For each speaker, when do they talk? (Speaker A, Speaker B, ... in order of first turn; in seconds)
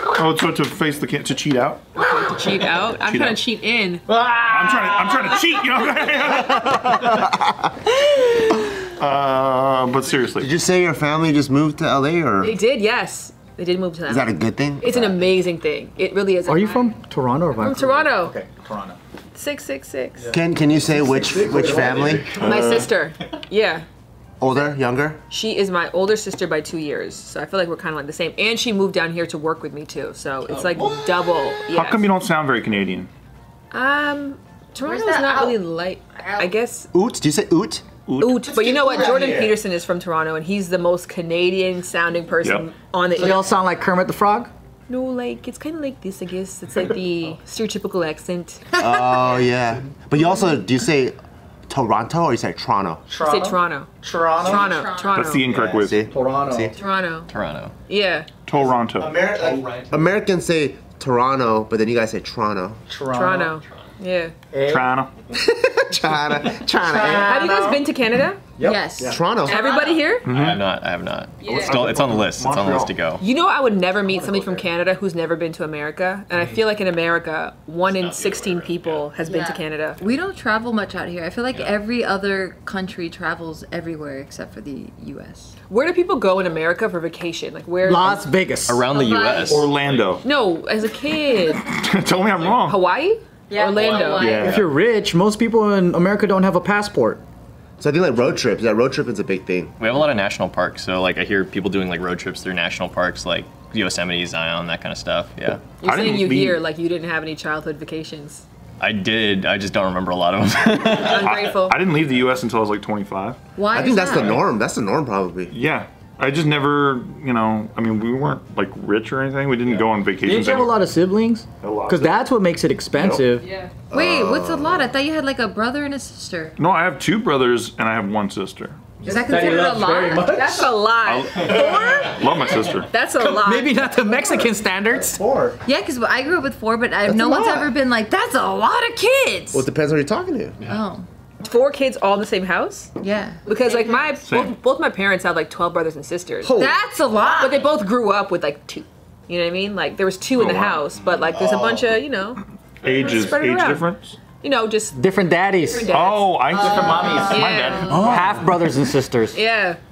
Speaker A: 0.1-1.8, 3.0-3.4, 4.3-7.3, 8.8-10.5, 31.7-33.1, 38.0-38.5, 55.1-56.0, 58.5-59.3, 64.6-65.1, 70.2-70.6, 71.5-73.0, 89.5-90.2, 91.5-92.8, 94.1-94.7, 105.8-106.6, 111.1-113.4, 115.5-120.8, 121.6-122.2, 122.9-123.2, 126.6-129.0, 131.0-132.9, 144.2-144.5, 150.3-150.9, 152.8-154.2, 155.9-158.4
Speaker B: 1.9-4.2, 12.4-16.9, 17.6-18.4, 19.3-20.3, 22.3-23.8, 25.3-32.0, 33.7-36.9, 38.2-43.5, 44.9-48.7, 53.2-55.5, 56.7-57.3, 57.9-58.3, 63.1-64.3, 67.2-68.4, 69.5-70.3, 71.4-71.7, 73.2-80.0, 85.7-88.2, 90.2-91.6, 92.6-94.4, 105.8-108.4, 111.0-111.8, 123.4-123.7, 130.3-133.8, 141.4-142.9, 143.4-146.5, 147.4-155.0, 155.6-158.1, 159.3-159.8
Speaker C: 7.1-7.7, 10.3-12.6, 14.1-15.2, 20.3-22.8, 24.4-25.2, 36.9-39.5, 48.7-51.1, 51.7-53.0, 55.4-56.7, 58.6-62.8, 65.3-67.4, 69.1-69.6, 97.8-99.7, 113.7-115.5, 123.9-124.9, 135.1-135.6, 137.0-137.7, 139.5-140.6, 146.4-146.8, 151.3-151.8
Speaker D: 16.5-19.0, 20.9-22.1, 43.1-44.5, 53.1-54.7, 56.1-56.7, 62.9-63.6, 64.5-64.9, 66.9-67.8, 68.6-69.2, 87.8-88.9, 94.2-97.2, 120.2-123.4, 129.0-130.8, 133.2-135.2, 154.9-155.9, 156.5-159.4
Speaker E: 34.8-35.6, 36.2-36.5, 48.8-49.2, 54.4-55.4, 66.8-67.8, 68.6-70.1, 79.2-85.5, 88.9-89.7, 93.5-94.7, 113.5-114.4, 123.9-126.6, 129.0-130.4, 135.6-139.7, 140.7-141.1, 143.0-144.2, 146.5-147.6, 156.5-158.2
Speaker F: 57.3-57.7, 70.2-73.2, 77.9-79.1, 88.7-90.0, 99.8-105.7, 108.8-111.3, 158.1-158.4